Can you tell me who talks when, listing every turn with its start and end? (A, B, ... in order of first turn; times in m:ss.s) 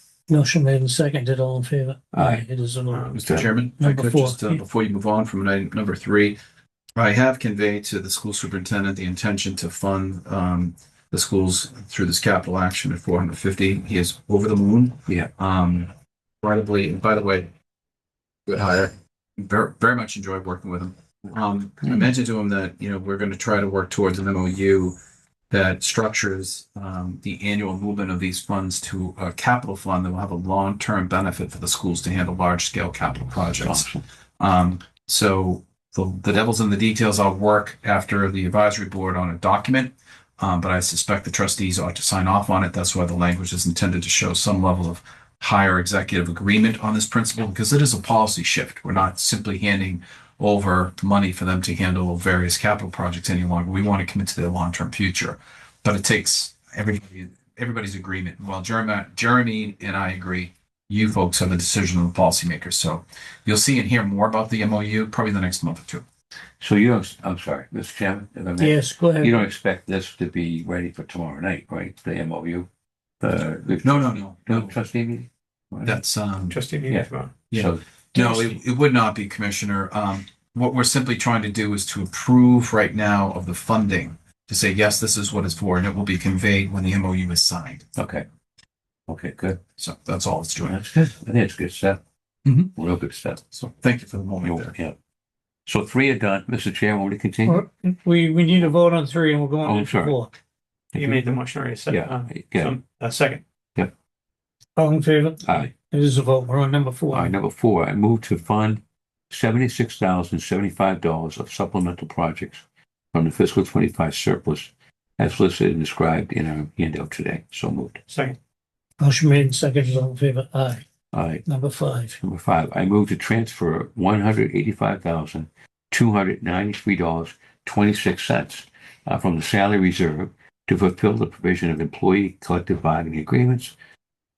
0:00.3-0:04.6 A
0:02.1-0:02.4 B
0:02.9-0:03.2 C
0:03.2-0:06.4 D
0:07.0-0:17.5 D
0:18.5-0:25.0 D
0:25.5-1:06.0 D
0:33.6-0:34.0 B
1:06.6-1:12.7 B
1:08.6-1:09.4 A
1:13.2-1:16.0 B
1:13.8-1:14.8 D
1:15.8-1:16.6 D
1:16.5-1:17.3 C
1:16.9-1:18.6 B
1:17.5-1:27.8 D
1:28.0-1:28.2 B
1:29.1-1:29.6 B
1:29.8-1:30.8 D
1:30.6-1:32.0 B
1:32.4-1:32.7 D
1:32.7-1:33.4 B
1:33.5-1:34.7 D
1:34.4-1:35.0 B
1:35.7-1:37.6 B
1:37.5-1:40.3 A
1:39.6-1:40.2 B
1:40.9-1:41.3 B
1:41.0-1:43.4 C
1:41.9-1:42.8 B
1:44.8-1:47.4 A
1:45.4-1:45.7 B
1:47.1-1:58.0 B
1:58.1-1:58.4 C
1:59.0-2:00.9 A
2:01.1-2:01.4 B
2:01.4-2:02.2 A
2:02.2-2:13.8 B